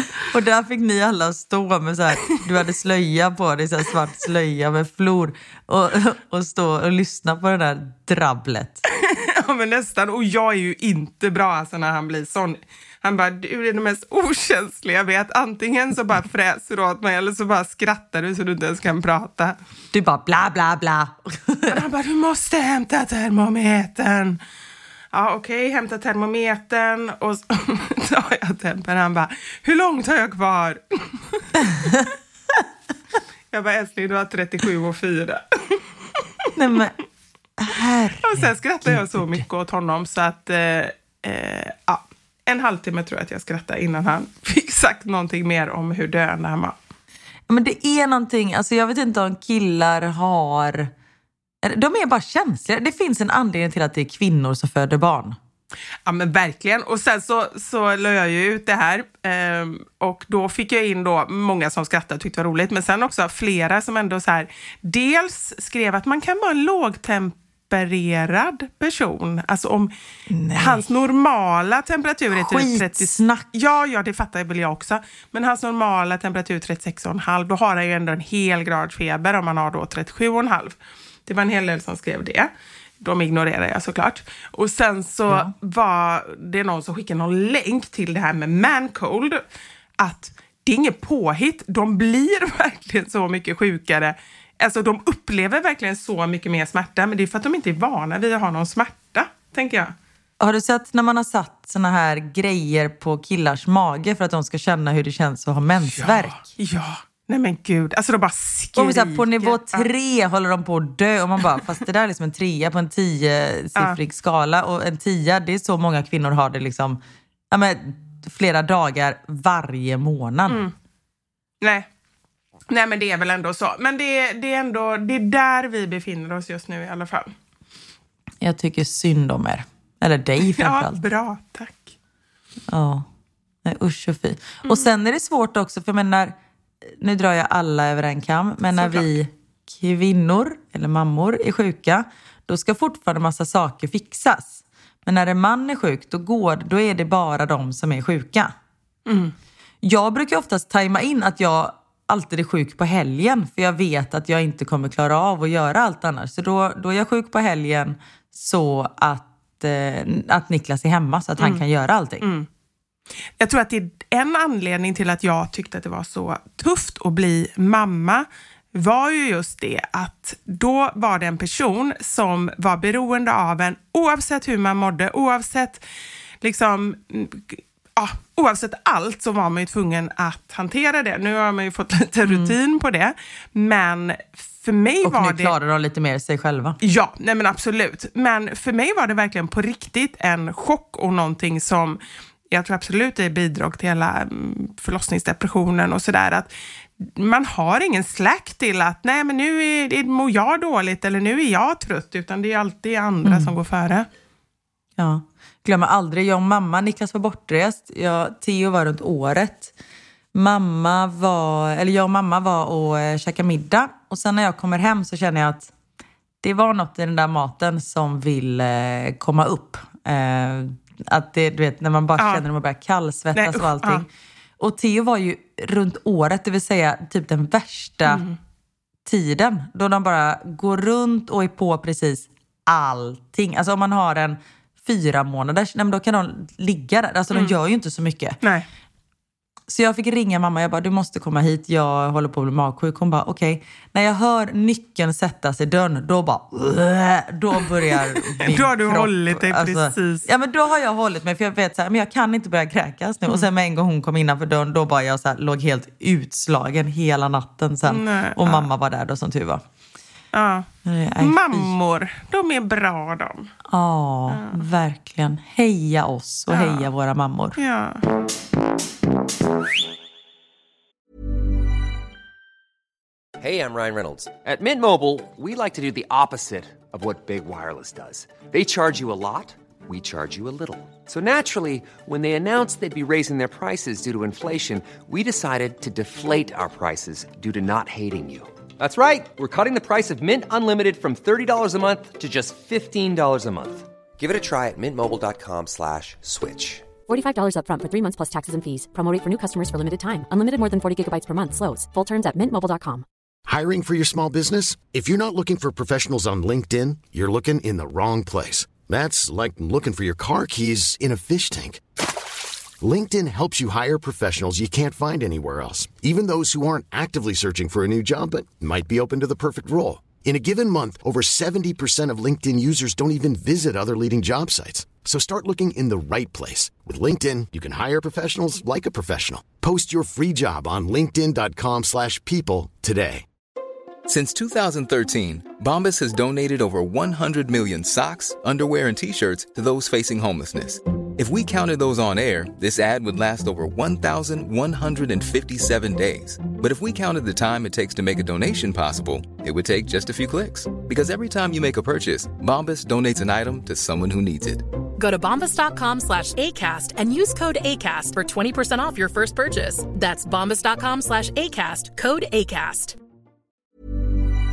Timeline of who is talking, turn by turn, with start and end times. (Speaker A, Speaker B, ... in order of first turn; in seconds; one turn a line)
Speaker A: 0.3-8.8
Speaker B: 8.9-19.6
Speaker A: 19.9-21.8
Speaker B: 21.7-24.4
Speaker B: 25.1-31.4
Speaker B: 33.5-35.8
Speaker A: 36.5-36.9
Speaker A: 37.6-39.4
Speaker B: 38.2-46.8
Speaker A: 47.5-50.9
Speaker A: 51.6-55.4
Speaker B: 56.0-69.9
Speaker A: 70.3-70.8
Speaker B: 70.5-89.4
Speaker A: 72.3-73.4
Speaker B: 90.0-99.9
Speaker A: 100.4-106.5
Speaker B: 105.9-109.9
Speaker A: 108.8-117.0
Speaker A: 117.5-120.6
Speaker B: 120.5-120.7
Speaker B: 121.6-121.9
Speaker B: 122.7-127.3
Speaker A: 128.4-131.0
Speaker B: 130.4-131.9
Speaker A: 132.7-133.1
Speaker A: 133.6-148.5
Speaker B: 138.7-139.1
Speaker B: 149.1-149.3
Speaker A: 149.8-162.2
Speaker B: 162.2-162.5
Speaker B: 163.4-175.8
Speaker B: 176.4-185.5
Speaker A: 182.2-182.5
Speaker A: 185.0-186.8
Speaker B: 186.8-192.0
Speaker B: 192.5-204.1
Speaker A: 203.2-203.5
Speaker A: 205.0-209.7
Speaker A: 210.3-215.7
Speaker A: 216.4-228.2
Speaker B: 222.2-222.4
Speaker B: 223.3-224.0
Speaker B: 228.1-228.4
Speaker A: 229.1-238.4
Speaker B: 238.4-238.7
Speaker A: 239.7-259.6
Speaker B: 248.4-250.3
Speaker B: 257.8-258.7
Speaker B: 260.3-263.5
Speaker A: 260.8-261.7
Speaker A: 263.7-267.6
Speaker B: 264.3-264.6
Speaker B: 266.5-266.9
Speaker B: 267.6-268.0
Speaker C: 273.4-296.9
Speaker D: 297.1-303.0
Speaker E: 303.5-311.8
Speaker E: 312.8-333.2
Speaker F: 334.1-354.6
Speaker G: 355.0-362.9